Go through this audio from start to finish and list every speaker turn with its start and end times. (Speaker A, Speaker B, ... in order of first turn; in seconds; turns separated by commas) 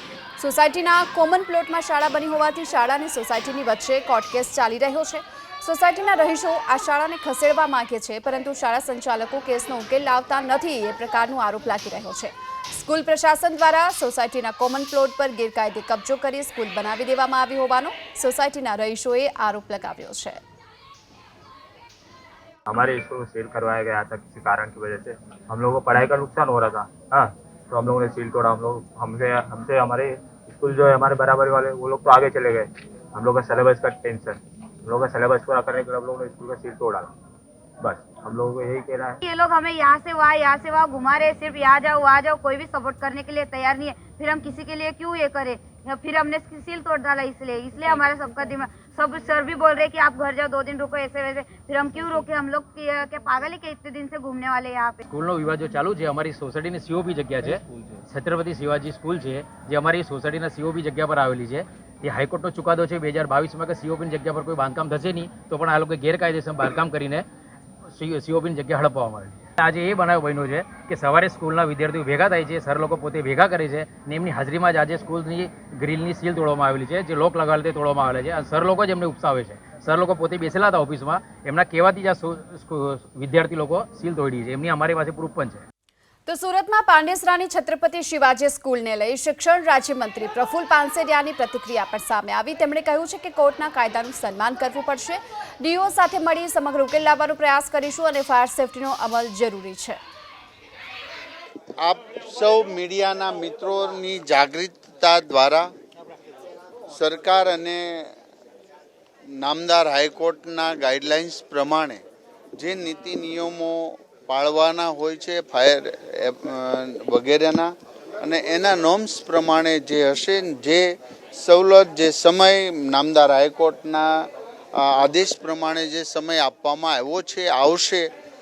Speaker A: 0.4-20.4, Speaker B: 22.7-37.1, Speaker B: 37.8-39.2, Speaker C: 39.2-55.0, Speaker D: 55.1-67.2, Speaker D: 67.8-85.7, Speaker A: 86.3-100.0, Speaker E: 101.8-105.7, Speaker E: 106.9-108.1, Speaker E: 109.3-112.0, Speaker E: 112.6-128.1